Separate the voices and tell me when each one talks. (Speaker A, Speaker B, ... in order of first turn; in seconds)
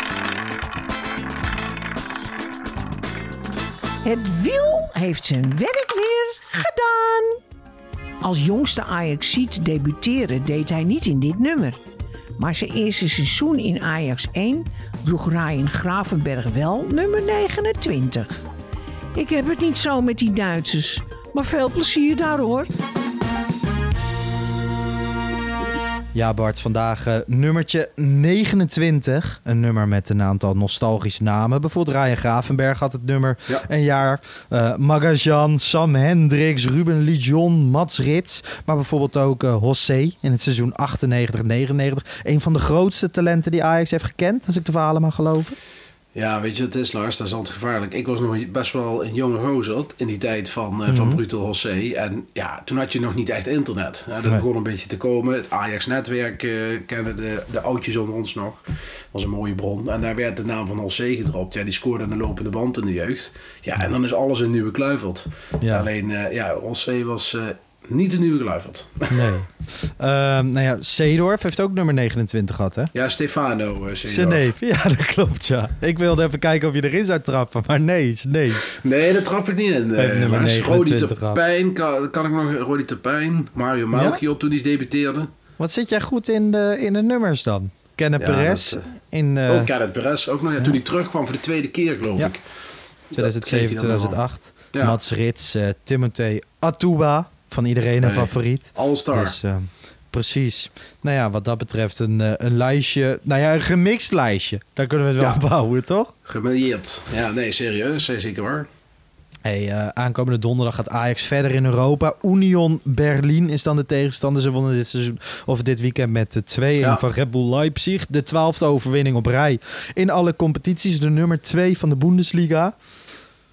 Speaker A: 4.0-7.4, 8.2-11.8, 12.4-18.4, 19.1-22.7
Speaker B: 26.1-45.6, 50.9-51.2, 65.6-65.9, 69.1-72.9, 74.1-78.6, 80.0-81.4, 83.9-84.2, 85.6-89.7, 93.1-106.1, 109.4-122.7
Speaker C: 46.1-58.6, 59.1-69.3, 72.9-74.5, 78.7-85.3, 88.2-88.9, 89.5-92.4, 93.1-94.2, 94.7-95.0, 98.0-99.3, 106.2-108.7